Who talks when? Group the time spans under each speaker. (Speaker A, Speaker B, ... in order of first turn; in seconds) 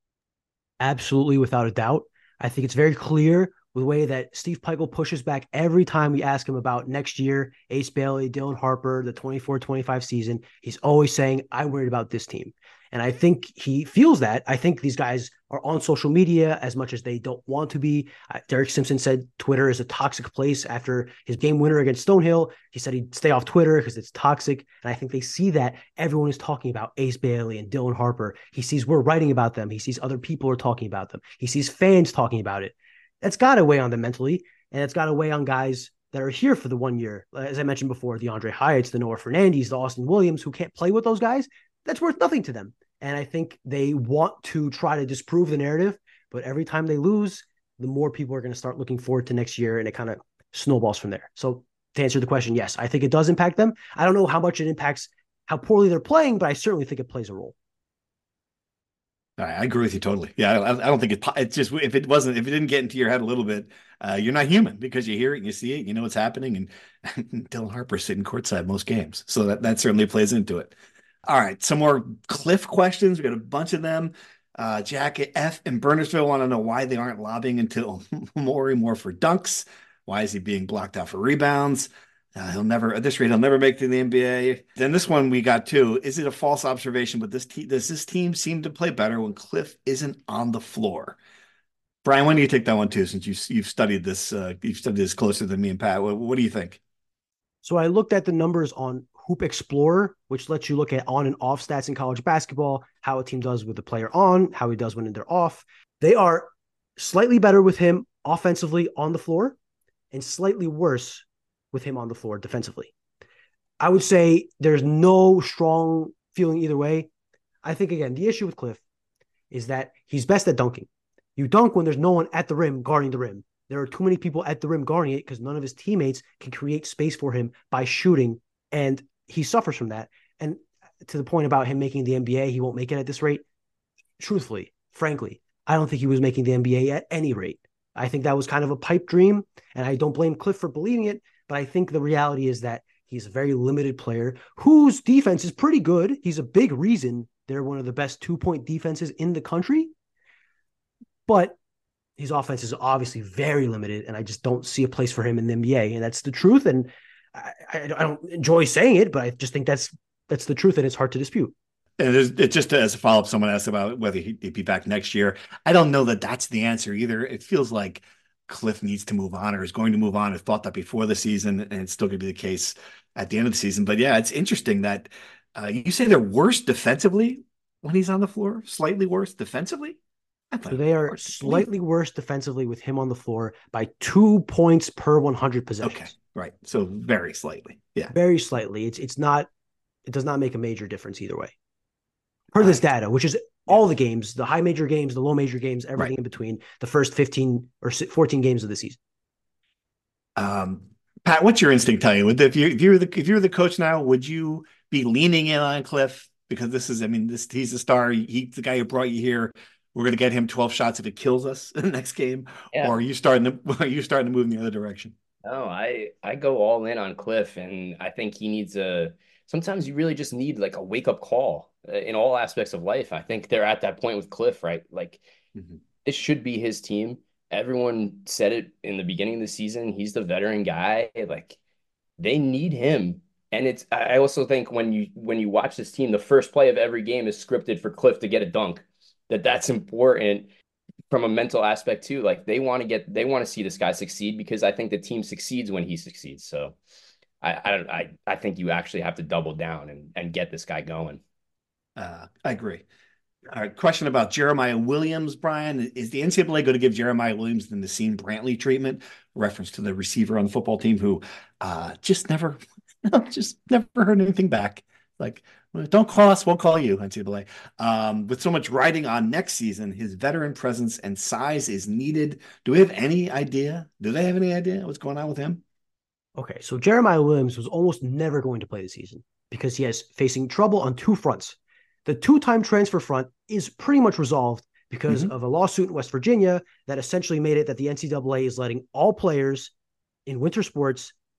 Speaker A: 0.8-57.5, 97.6-109.5, 110.1-112.9, 113.8-117.1, 117.6-118.8, 119.5-133.4, 134.2-149.9, 151.3-151.6, 152.2-161.5, 180.7-186.1, 188.1-189.5, 190.1-191.5, 192.5-199.0, 276.4-289.7, 290.2-291.1
Speaker B: 59.4-70.7, 71.2-91.2, 92.0-96.8, 162.0-180.0, 180.5-181.7, 185.8-188.1, 200.3-215.1, 251.9-252.8, 253.5-275.6
Speaker C: 215.4-225.2, 226.0-231.6, 232.2-240.5, 241.1-246.7, 247.4-251.2